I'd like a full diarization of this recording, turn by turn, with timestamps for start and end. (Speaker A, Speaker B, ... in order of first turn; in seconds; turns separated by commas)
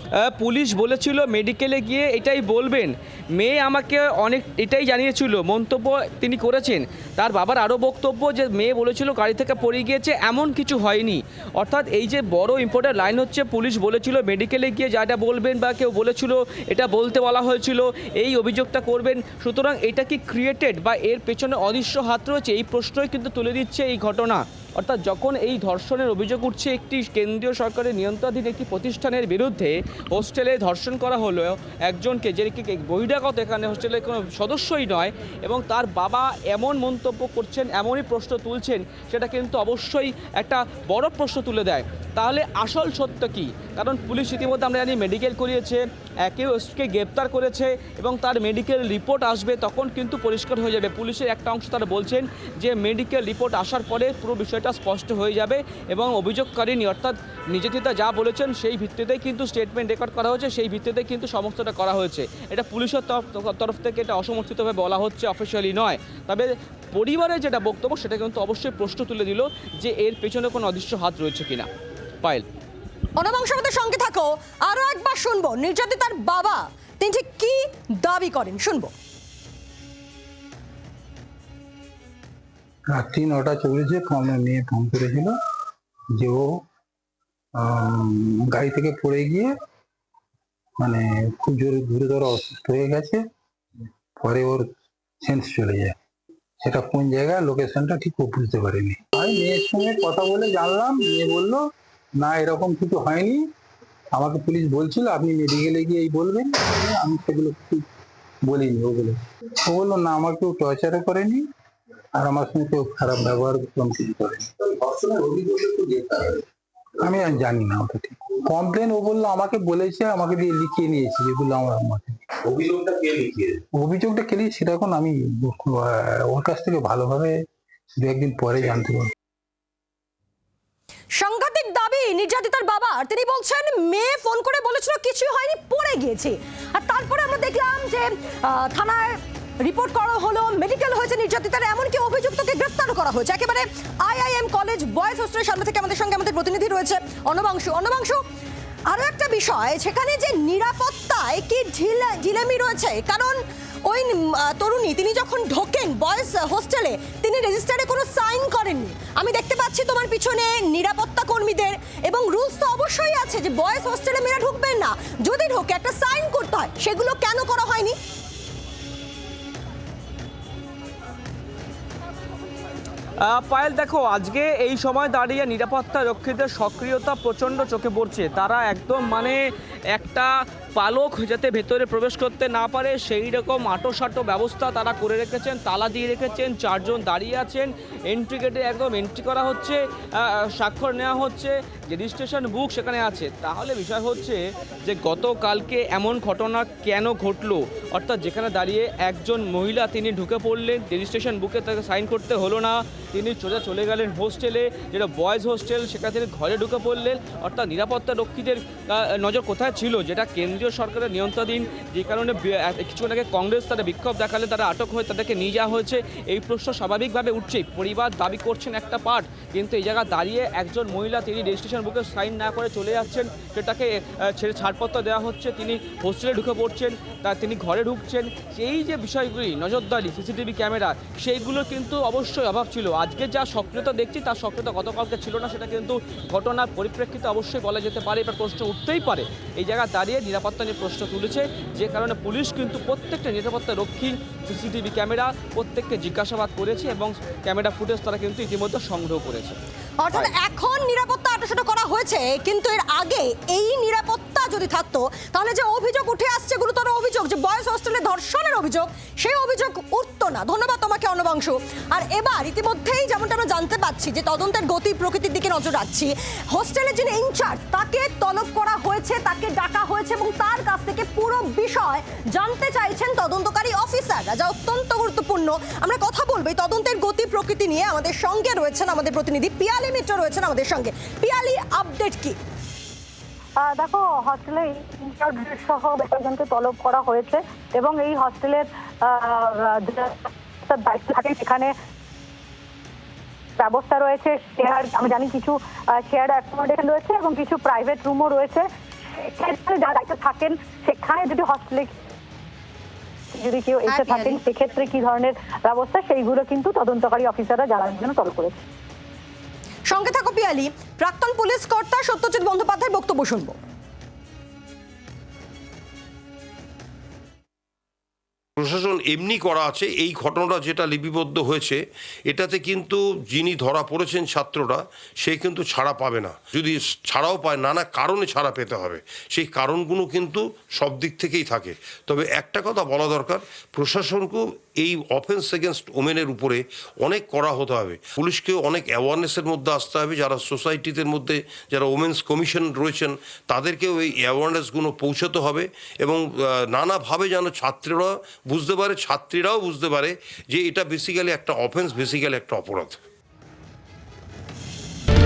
Speaker A: 0.3-71.7, Speaker B: 73.2-78.9, Speaker C: 82.9-85.3, Speaker C: 86.2-86.5, Speaker C: 87.5-89.5, Speaker C: 90.8-93.2, Speaker C: 94.2-94.7, Speaker C: 95.2-95.9, Speaker C: 96.6-101.6, Speaker C: 102.2-103.5, Speaker C: 104.1-107.8, Speaker C: 108.4-111.4, Speaker C: 112.1-114.5, Speaker D: 114.6-116.4, Speaker C: 117.0-122.2, Speaker D: 122.5-123.6, Speaker C: 123.8-127.4, Speaker C: 128.0-129.1, Speaker B: 131.2-148.2, Speaker B: 148.9-167.9, Speaker A: 173.3-179.4, Speaker A: 179.9-249.6, Speaker B: 250.0-282.4, Speaker E: 283.6-291.7, Speaker E: 293.6-301.9, Speaker E: 303.3-308.6, Speaker B: 303.9-304.4, Speaker B: 309.9-313.6, Speaker F: 318.6-353.0